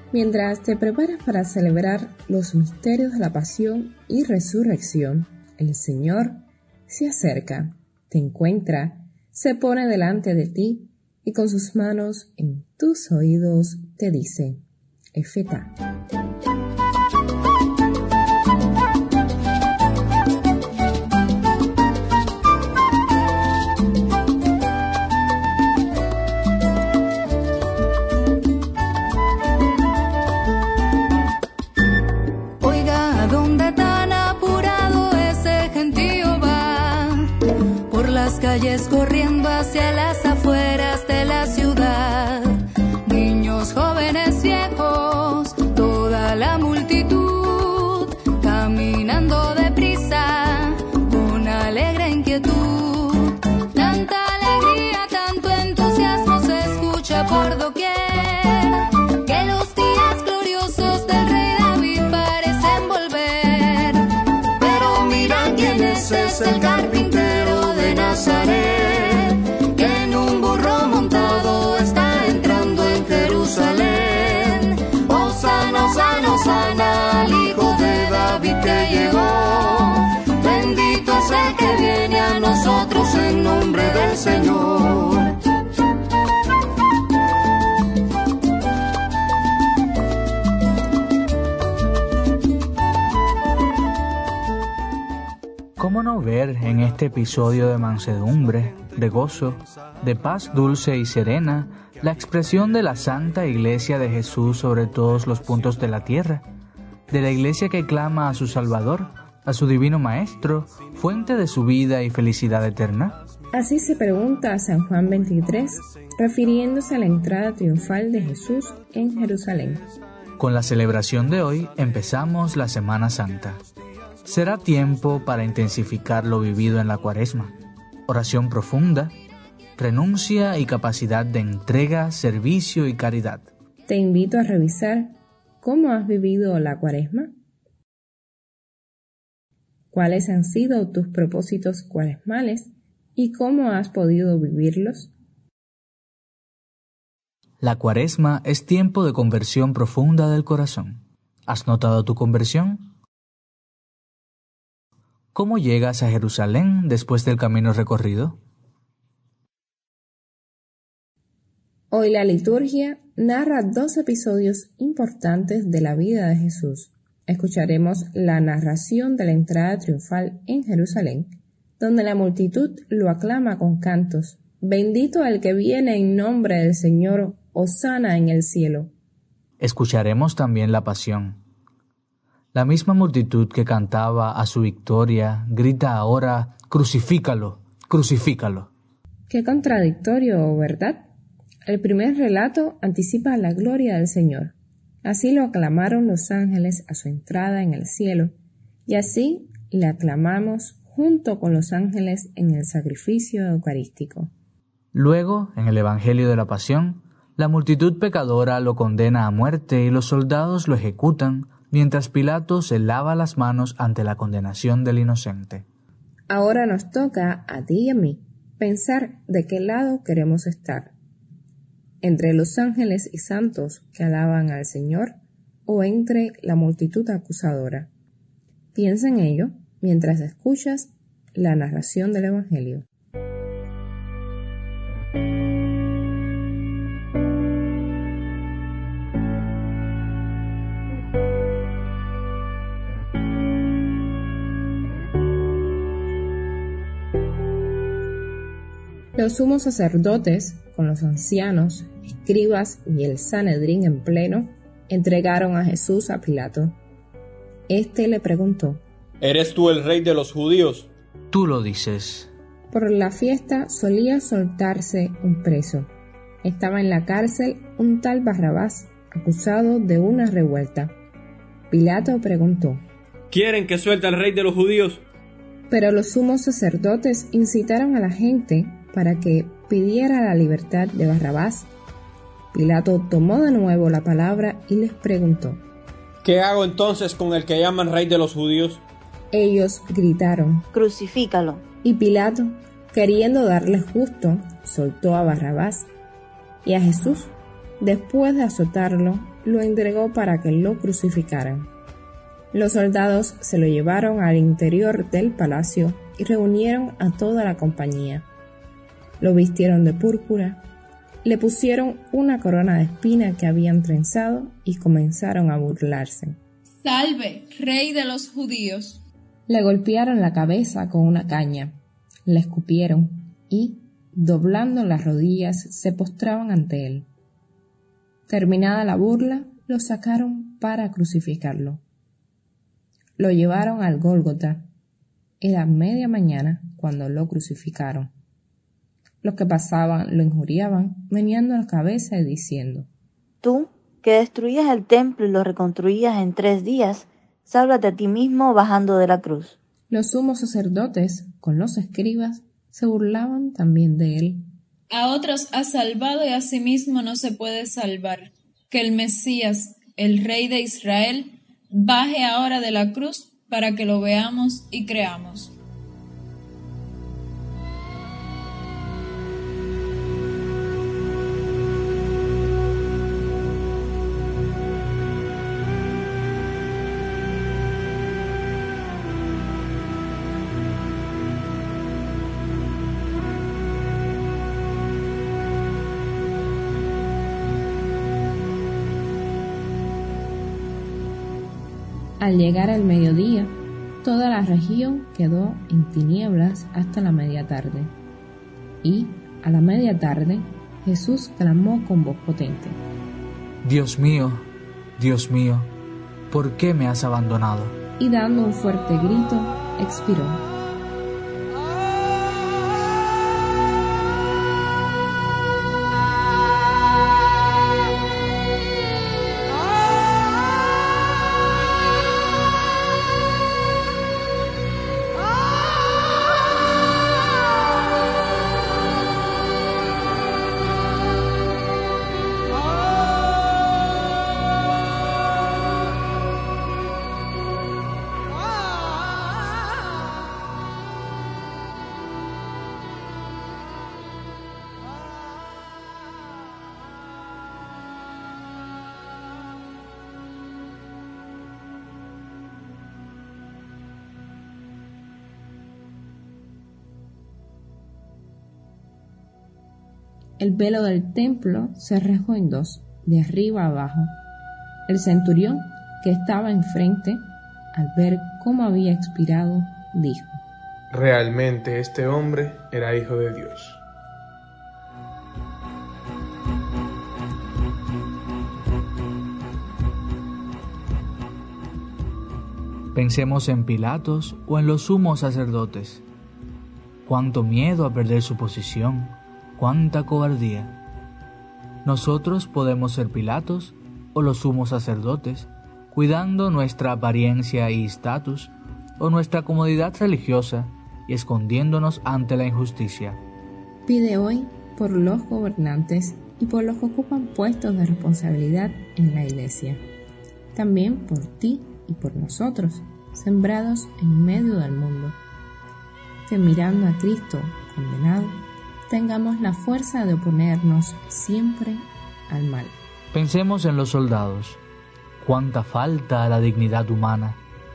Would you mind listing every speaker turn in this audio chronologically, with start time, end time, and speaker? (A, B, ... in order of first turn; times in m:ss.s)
0:00.1-0:14.6 A
0:15.1-0:15.7 A
0:32.6-1:25.4 B
1:35.8-1:46.4 C
1:47.1-1:53.2 C
1:53.5-1:59.8 A
2:00.4-2:03.6 C
2:04.2-2:07.5 C
2:08.1-2:09.1 C
2:09.8-2:13.5 C
2:13.9-2:17.3 A
2:19.9-2:25.1 A
2:27.6-2:32.9 C
2:35.3-2:38.4 C
2:41.9-2:58.9 A
2:59.6-3:01.4 C
3:02.5-3:08.7 C
3:09.3-3:11.1 A
3:11.6-3:18.3 A
3:18.9-3:24.3 A
3:24.9-3:35.6 C
3:36.3-3:40.9 A
3:42.0-3:45.1 A
3:45.6-3:47.9 A
3:48.7-3:52.8 A
4:09.2-4:16.8 A
4:17.7-4:18.8 A
4:19.2-4:20.9 D
4:21.3-4:22.3 C
4:22.7-4:25.9 A
4:26.4-4:30.9 A
4:31.7-4:32.8 A
4:33.3-4:35.0 D
4:35.7-4:41.7 A
4:42.5-4:45.6 A
4:46.2-4:48.8 D
4:49.3-4:50.6 A
4:50.7-4:51.6 E
4:51.8-4:55.9 A
4:56.6-5:01.7 A
5:02.5-5:08.3 A
5:09.2-5:10.6 A
5:11.2-5:16.4 A
5:16.8-5:19.0 F
5:19.5-5:21.7 A
5:22.3-5:27.1 A
5:28.3-5:31.8 A
5:33.2-5:34.6 A
5:35.4-5:38.1 A
5:39.2-5:42.9 A
5:43.4-5:49.5 E
5:49.9-5:54.4 A
5:54.9-6:05.5 F
6:32.2-6:37.9 A
6:38.8-6:42.8 A
6:43.6-6:45.7 C
6:46.3-6:47.8 C
6:48.0-6:50.4 A
7:40.4-7:44.1 A
7:44.9-7:50.4 A
7:50.9-7:53.8 G
8:02.9-8:06.0 C
8:07.0-8:10.8 C
8:11.8-8:23.2 C
8:23.8-8:29.8 A
8:30.5-8:35.2 A
8:36.2-8:38.4 A
8:38.9-8:42.7 A
8:43.1-8:44.6 C
8:45.2-8:47.4 C